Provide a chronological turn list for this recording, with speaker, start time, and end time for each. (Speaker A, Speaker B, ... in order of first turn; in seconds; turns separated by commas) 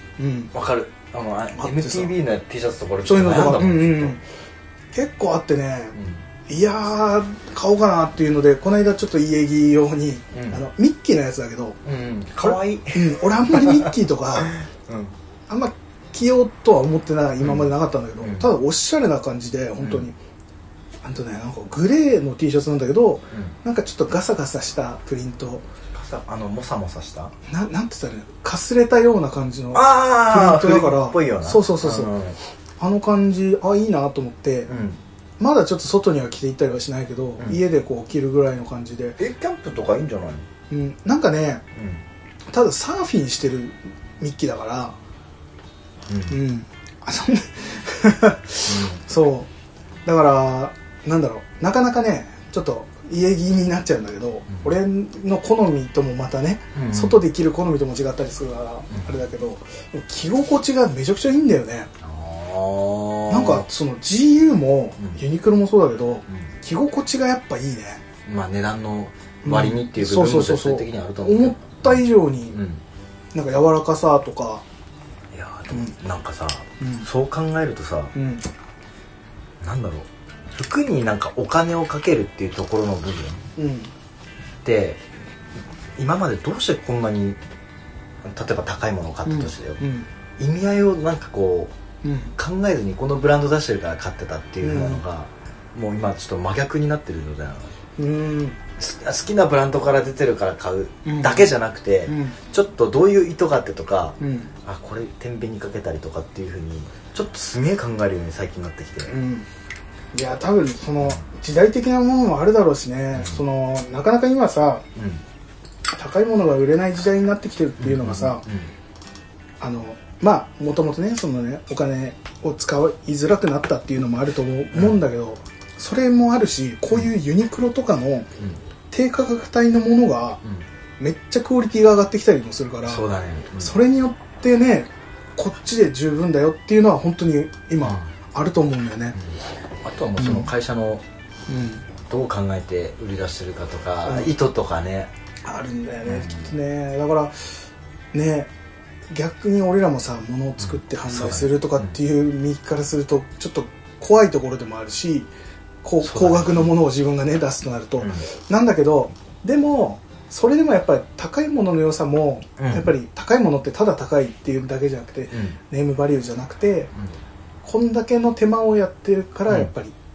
Speaker A: 0.2-0.5, Speaker B: 0.5-4.2, Speaker A: 1.5-2.2, Speaker A: 3.0-4.2, Speaker A: 4.9-11.8, Speaker B: 6.0-6.2, Speaker B: 10.3-10.6, Speaker B: 11.8-15.1, Speaker A: 12.4-14.6, Speaker A: 15.5-20.2, Speaker B: 17.4-18.5, Speaker B: 19.8-20.1, Speaker A: 21.0-25.7, Speaker B: 25.9-27.3, Speaker A: 27.5-32.2, Speaker B: 29.7-32.4, Speaker A: 32.8-34.7, Speaker B: 34.7-35.0, Speaker A: 35.4-39.2, Speaker B: 39.2-40.5, Speaker A: 40.7-41.6, Speaker B: 41.7-42.0, Speaker A: 42.5-45.0, Speaker B: 46.1-46.4, Speaker A: 46.3-49.5, Speaker B: 48.7-49.0, Speaker A: 50.1-61.9, Speaker B: 56.7-57.2, Speaker B: 62.0-63.7, Speaker A: 63.3-68.0, Speaker B: 68.2-72.8, Speaker A: 69.4-72.6, Speaker A: 73.3-74.6, Speaker B: 75.3-78.1, Speaker A: 76.8-77.1, Speaker A: 78.1-78.5, Speaker B: 79.6-83.4, Speaker A: 83.6-83.9, Speaker B: 84.6-85.0, Speaker B: 86.0-87.4, Speaker B: 88.2-89.8, Speaker A: 89.3-90.1, Speaker B: 90.4-91.7, Speaker A: 92.0-92.3, Speaker B: 92.4-97.7, Speaker A: 94.6-95.0, Speaker A: 98.0-98.6, Speaker B: 98.8-109.1, Speaker A: 101.0-102.4, Speaker A: 104.2-104.5, Speaker A: 109.1-109.5, Speaker A: 110.1-114.8, Speaker B: 113.2-113.4, Speaker B: 115.0-115.2, Speaker A: 115.9-118.4, Speaker B: 117.8-118.7, Speaker A: 119.6-128.3, Speaker A: 128.9-130.4, Speaker A: 131.0-133.1, Speaker B: 132.9-133.8, Speaker A: 133.6-139.2, Speaker B: 139.2-141.0, Speaker A: 140.2-140.5, Speaker A: 141.5-141.8, Speaker B: 142.1-145.1, Speaker A: 144.0-144.3, Speaker A: 145.4-147.5, Speaker B: 146.1-146.6, Speaker A: 148.1-148.5, Speaker A: 149.1-155.3, Speaker B: 150.6-152.0, Speaker A: 155.8-166.9, Speaker B: 156.0-156.8, Speaker B: 158.0-158.3, Speaker B: 162.6-162.9, Speaker B: 165.3-165.6, Speaker A: 167.6-169.9